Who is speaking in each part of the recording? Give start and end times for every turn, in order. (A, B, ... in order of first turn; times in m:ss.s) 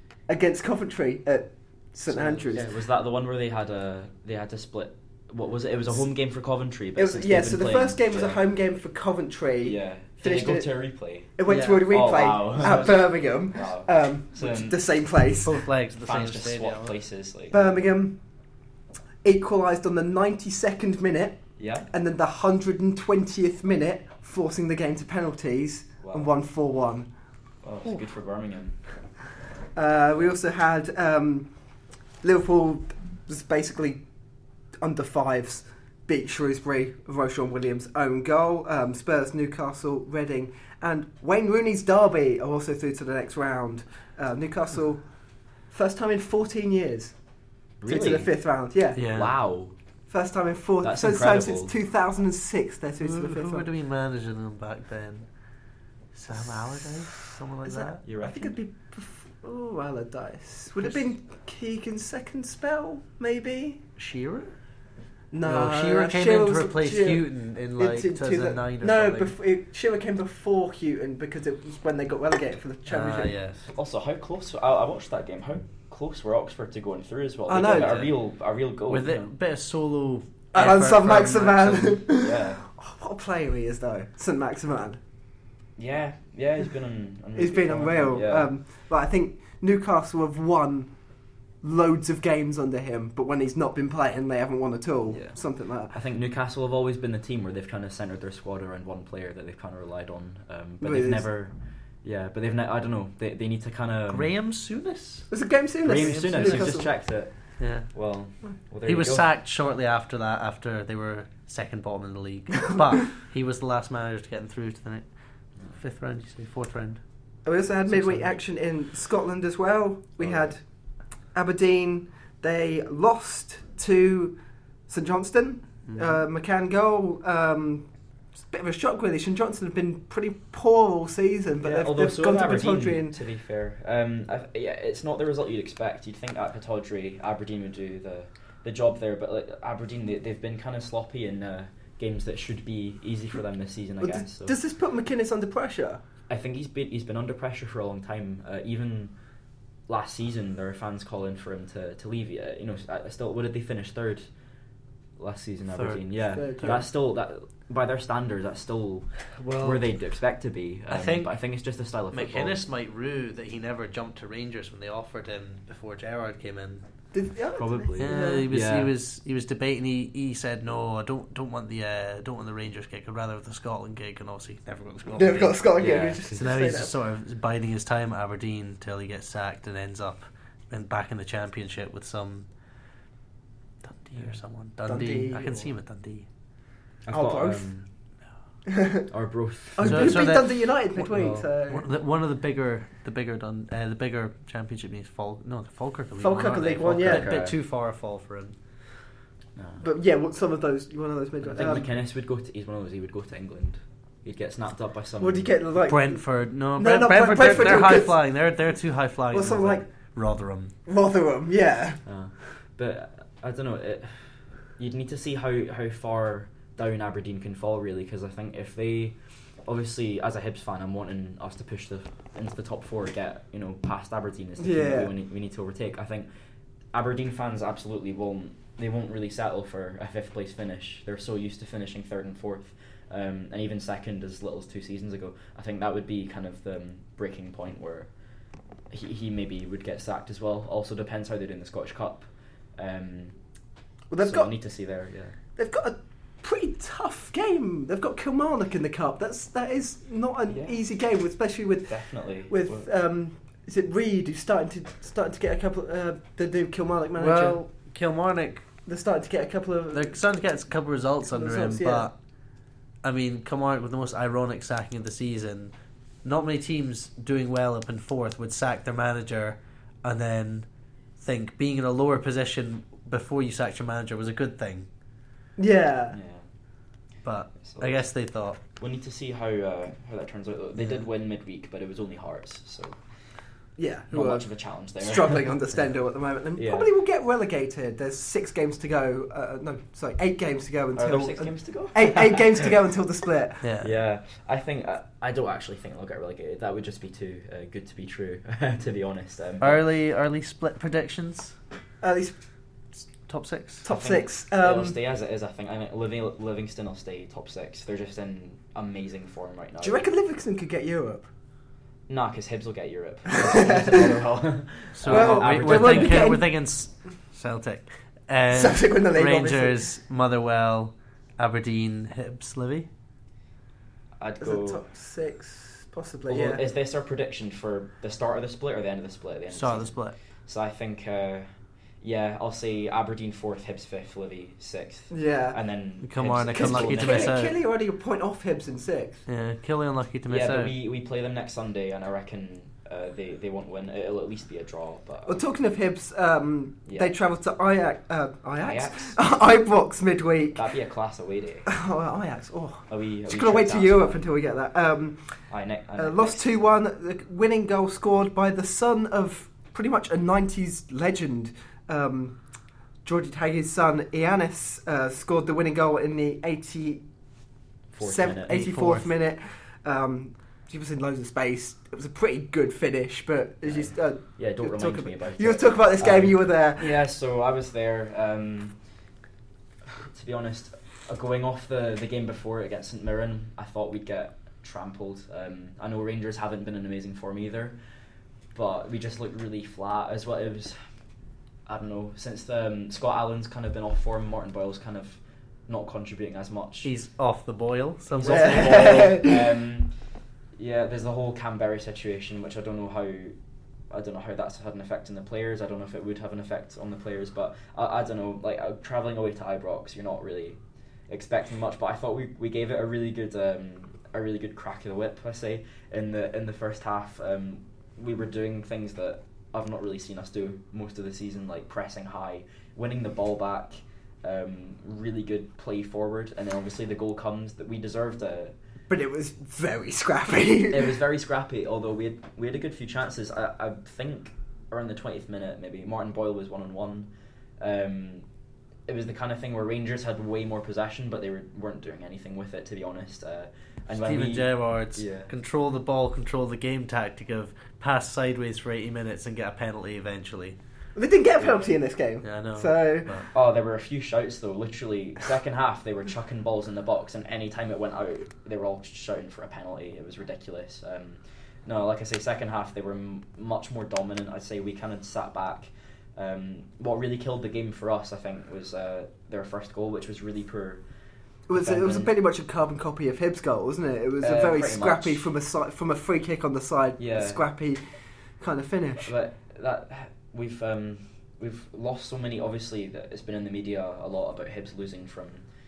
0:00.3-0:02.7 A
0:02.5-0:08.4 B
0:07.0-0:10.7 A
0:09.6-0:14.8 B
0:11.4-0:15.6 A
0:11.5-0:11.8 C
0:15.4-0:16.9 C
0:16.0-0:17.6 B
0:17.5-0:18.2 A
0:19.2-0:27.1 A
0:21.6-0:21.9 B
0:26.0-0:26.3 B
0:27.6-0:28.8 B
0:29.8-0:31.5 A
0:32.2-0:34.0 A
0:34.8-0:45.0 A
0:45.7-0:47.2 A
0:47.8-0:48.3 B
0:47.9-0:49.0 A
0:49.0-0:49.4 C
0:49.1-0:49.8 B
0:50.1-0:53.7 A
0:50.8-0:51.7 B
0:53.0-0:55.3 C
0:56.1-0:58.0 C
0:57.6-1:03.8 A
0:58.0-0:58.5 B
1:04.0-1:04.5 C
1:05.3-1:07.2 A
1:05.4-1:09.3 C
1:07.8-1:13.3 A
1:12.9-1:13.7 C
1:13.7-1:19.3 B
1:17.5-1:18.0 A
1:18.9-1:22.0 C
1:20.5-1:25.0 A
1:22.2-1:22.6 B
1:25.8-1:28.5 B
1:27.4-1:30.9 A
1:31.6-1:35.9 A
1:35.1-1:44.3 B
1:40.8-1:41.2 A
1:44.1-1:45.3 C
1:45.3-1:46.9 A
1:45.8-1:49.3 B
1:46.0-1:46.7 C
1:47.6-1:47.9 C
1:48.8-1:55.1 C
1:55.7-1:57.0 C
1:57.4-2:00.6 A
1:57.9-1:58.4 C
2:01.3-2:04.4 A
2:04.9-2:07.9 A
2:08.5-2:13.2 A
2:11.6-2:24.6 B
2:24.0-2:26.0 A
2:26.3-2:29.1 B
2:29.9-2:34.3 B
2:35.2-2:42.6 B
2:35.7-2:36.0 C
2:36.4-2:36.9 A
2:39.4-2:39.8 C
2:40.9-2:41.3 C
2:42.1-2:46.8 C
2:47.1-2:48.5 A
2:47.6-2:48.9 B
2:48.0-2:55.6 C
2:55.2-2:56.9 A
2:55.8-2:56.7 B
2:56.3-3:02.5 C
3:03.8-3:06.3 C
3:04.9-3:05.7 A
3:07.0-3:07.9 B
3:07.1-3:07.7 A
3:08.7-3:09.0 A
3:09.1-3:10.4 B
3:09.8-3:11.9 A
3:09.8-3:10.6 C
3:11.1-3:11.4 B
3:11.2-3:18.6 C
3:16.2-3:17.3 A
3:16.8-3:17.6 B
3:19.6-3:19.9 B
3:19.8-3:21.9 A
3:21.4-3:25.5 B
3:25.2-3:28.2 A
3:25.8-3:30.7 C
3:29.3-3:29.8 A
3:30.9-3:32.0 A
3:32.1-3:46.3 B
3:44.6-3:45.1 A
3:46.9-3:58.1 B
3:58.9-4:03.4 B
4:04.1-4:04.5 A
4:04.2-4:05.4 B
4:05.6-4:12.0 A
4:10.5-4:10.8 B
4:11.9-4:12.9 B
4:12.5-4:17.6 A
4:17.2-4:18.6 C
4:18.9-4:20.2 A
4:19.9-4:22.2 C
4:21.3-4:22.1 A
4:23.0-4:25.7 C
4:26.2-4:30.7 C
4:31.2-4:34.9 C
4:35.6-4:36.2 A
4:36.1-4:36.5 B
4:37.2-4:38.6 C
4:37.6-4:38.1 B
4:38.8-4:43.0 B
4:43.8-4:44.5 A
4:44.1-4:45.6 B
4:45.0-4:53.6 A
4:46.6-4:46.9 B
4:51.0-4:52.7 B
4:53.6-4:53.9 C
4:53.8-4:59.8 B
4:59.6-5:01.6 C
5:02.0-5:02.4 A
5:03.3-5:03.9 C
5:03.8-5:05.0 A
5:03.9-5:10.0 B
5:09.8-5:11.3 A
5:12.1-5:16.3 B
5:13.3-5:14.2 A
5:15.0-5:22.9 C
5:15.1-5:16.4 A
5:18.5-5:19.9 A
5:24.2-5:24.8 B
5:24.4-5:26.6 A
5:26.3-5:31.5 B
5:29.5-5:30.2 C
5:32.0-5:37.4 B
5:35.1-5:35.6 A
5:36.0-5:37.6 C
5:36.5-5:39.2 A
5:39.3-5:40.7 C
5:40.3-5:45.5 B
5:45.3-5:50.7 A
5:46.9-5:47.1 B
5:48.6-5:49.2 B
5:50.6-5:51.7 B
5:51.7-5:55.2 A
5:52.9-5:54.3 B
5:55.5-5:56.6 B
5:56.0-6:02.4 A
6:03.0-6:07.0 A
6:07.9-6:08.6 B
6:08.0-6:17.0 A
6:08.5-6:09.1 C
6:13.6-6:18.8 B
6:20.0-6:27.8 B
6:28.5-6:30.8 B
6:31.7-6:36.9 B
6:36.8-6:38.9 C
6:38.2-6:39.9 B
6:38.3-6:39.5 A
6:40.6-6:43.4 B
6:43.9-7:08.6 B
7:08.9-7:11.0 A
7:10.7-7:18.3 B
7:18.9-7:25.3 B
7:24.0-7:30.6 C
7:31.0-7:33.2 A
7:31.4-7:31.7 B
7:32.2-7:33.3 C
7:33.3-7:50.8 B
7:51.5-7:57.8 A
7:51.5-7:52.1 B
7:54.2-7:55.3 B
7:57.0-7:57.4 B
7:58.4-7:59.1 A
7:59.0-8:05.4 B